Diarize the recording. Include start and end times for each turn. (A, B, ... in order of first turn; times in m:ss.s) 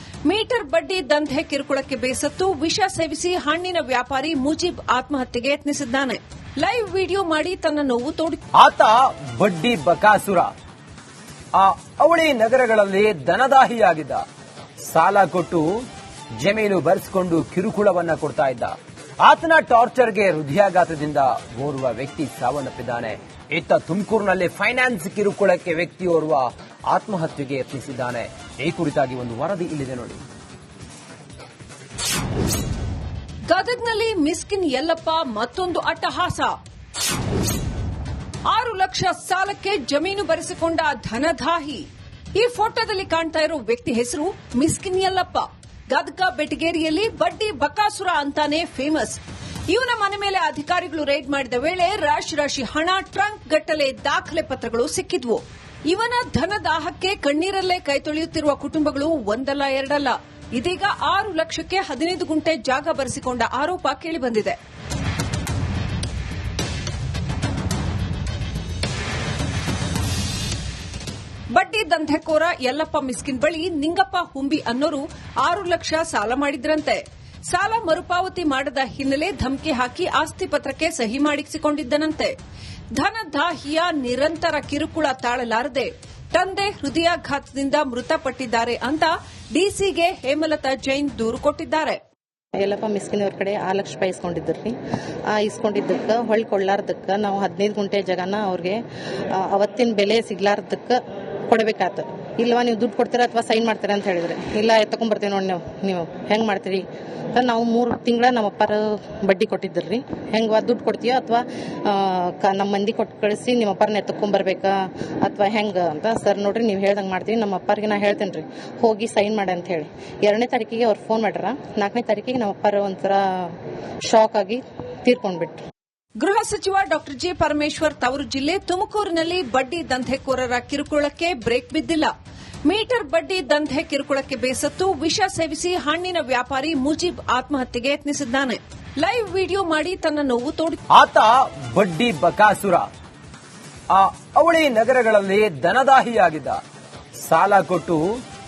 0:00.2-0:08.4 A
0:08.6-0:10.5 B
0:11.5-0:14.2 B
0:14.8-0:15.7 B
0:16.4-0:30.2 B
0:33.5-0:36.5 A
0:38.5-1:04.6 A
1:11.5-1:22.4 A
1:22.9-1:32.0 A
1:32.6-1:34.8 C
1:35.3-1:38.8 C
1:39.3-2:05.6 C
2:06.2-2:12.1 A
2:12.6-2:20.8 A
2:20.9-2:22.9 B
2:23.9-2:26.6 B
2:27.2-2:28.0 B